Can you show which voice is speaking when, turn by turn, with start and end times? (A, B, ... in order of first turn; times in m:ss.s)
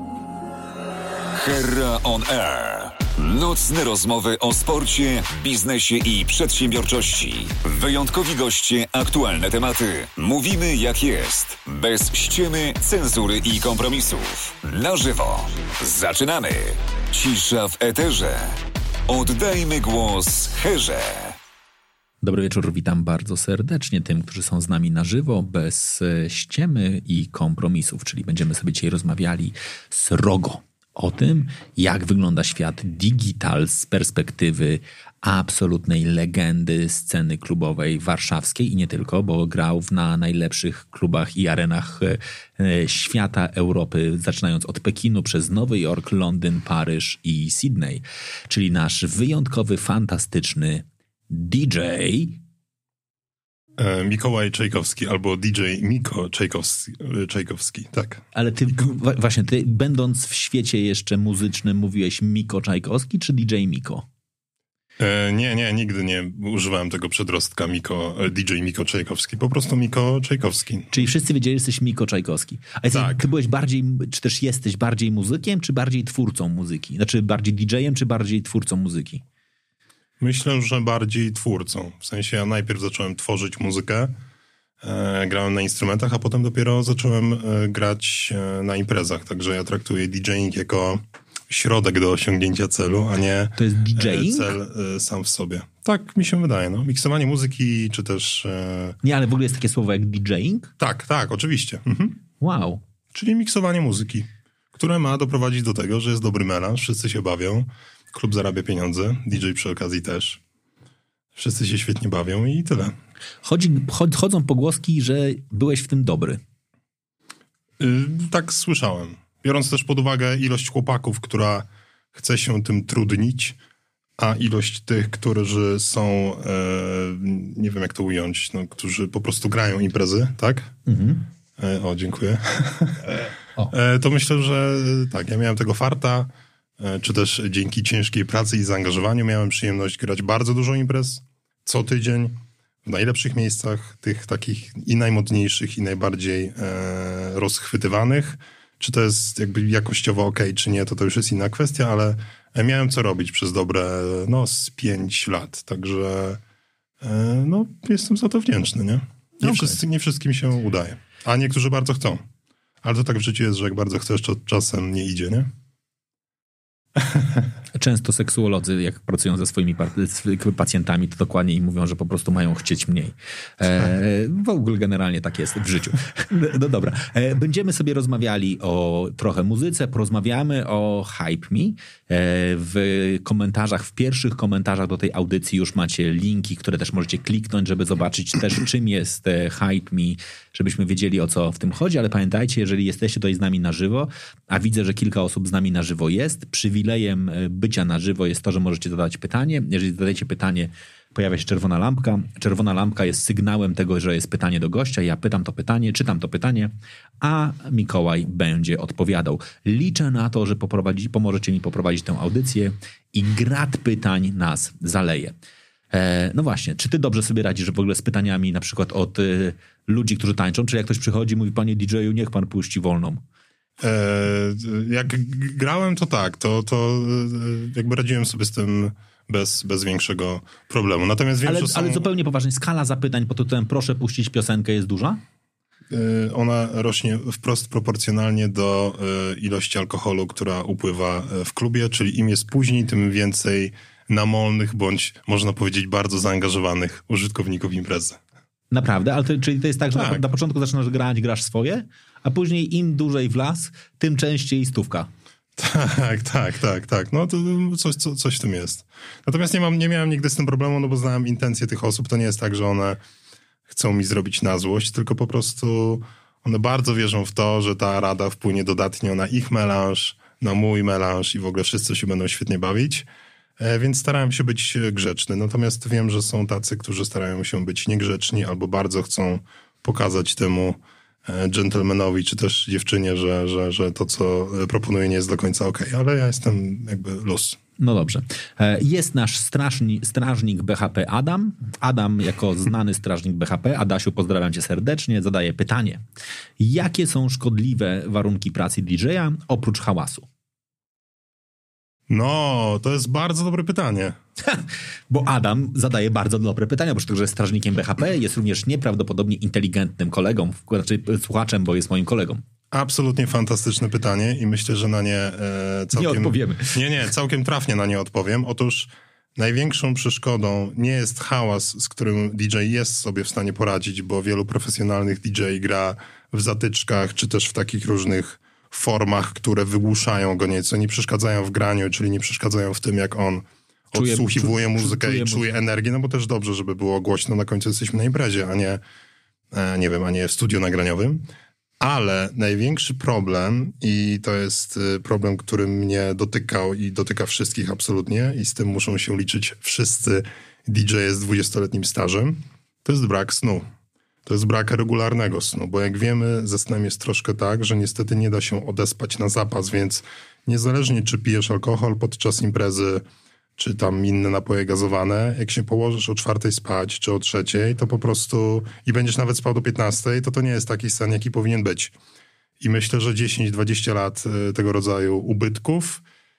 0:01.4-0:21.4 A
0:22.2-0:52.4 B
0:53.8-0:58.2 C
0:58.3-1:04.0 B
1:05.0-1:11.0 C
1:10.9-1:19.2 B
1:12.9-1:13.3 C
1:20.2-1:24.1 C
1:24.8-1:39.0 C
1:33.6-1:34.6 B
1:39.0-1:40.7 B
1:40.8-1:42.2 C
1:42.4-1:42.8 B
1:43.1-1:50.4 C
1:51.4-1:52.9 C
1:53.4-1:56.4 B
1:57.8-2:03.6 C
2:04.2-2:10.7 C
2:10.8-2:11.2 B
2:11.6-2:36.4 C
2:37.0-2:42.2 C
2:39.4-2:39.8 B
2:42.8-2:45.5 C
2:47.0-2:47.3 C
2:47.7-3:35.3 B
3:35.9-3:43.2 B
3:43.8-3:52.1 C
3:51.4-3:55.2 B
3:55.9-4:08.2 C
4:08.7-4:15.1 B
4:09.9-4:10.2 C
4:15.6-4:23.0 C
4:23.7-4:33.1 C
4:33.6-4:47.6 C
4:47.8-4:56.0 B
4:56.6-5:00.2 B
5:02.1-5:04.2 C
5:04.4-5:12.4 B
5:12.7-5:38.8 C
5:15.9-5:16.8 B
5:33.9-5:35.4 B
5:39.5-5:41.2 C
5:41.8-5:53.6 C
5:54.2-6:03.0 C
6:03.6-6:11.9 C
6:12.6-6:16.0 C